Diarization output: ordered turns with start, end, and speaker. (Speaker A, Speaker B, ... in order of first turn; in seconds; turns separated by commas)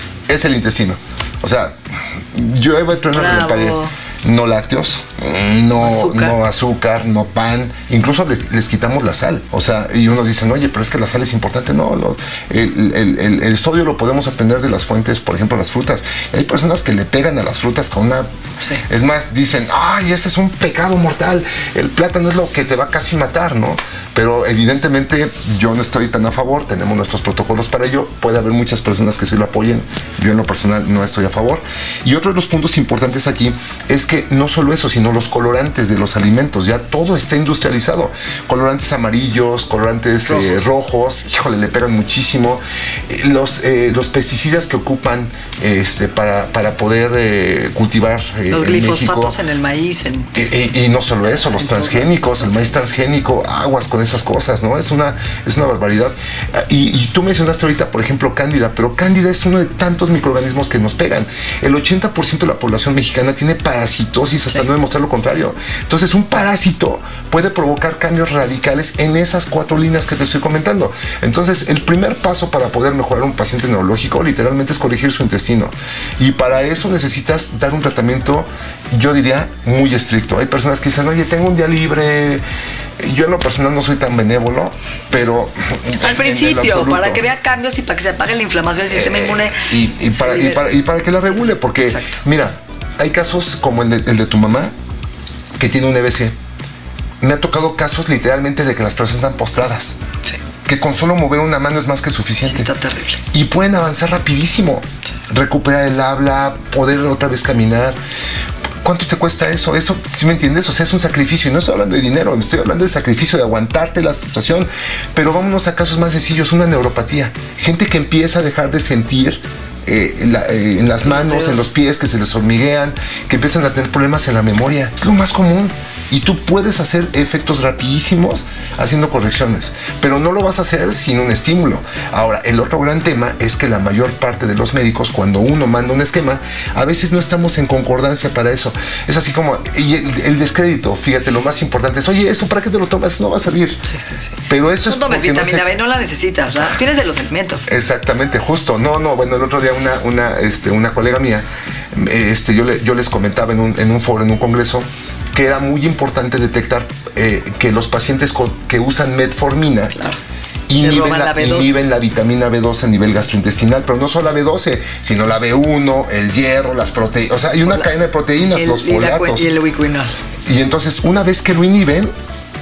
Speaker A: 0.3-18.3, Speaker B: 3.1-3.9, Speaker B: 5.8-6.3, Speaker A: 18.8-49.4, Speaker B: 40.3-40.6, Speaker B: 48.5-50.4, Speaker A: 50.3-82.4, Speaker B: 51.4-52.8, Speaker A: 83.0-87.2, Speaker B: 86.0-90.6, Speaker A: 88.9-94.7, Speaker B: 91.9-92.2, Speaker A: 95.6-96.3, Speaker A: 97.2-100.0, Speaker A: 100.6-102.7, Speaker B: 102.4-103.2, Speaker A: 103.3-108.0, Speaker A: 108.8-143.8, Speaker B: 121.0-121.6, Speaker B: 143.9-147.7, Speaker A: 144.5-145.7, Speaker A: 147.7-159.9, Speaker A: 160.7-169.5, Speaker B: 160.8-161.7, Speaker B: 167.6-167.9, Speaker B: 168.5-170.1, Speaker A: 170.5-172.1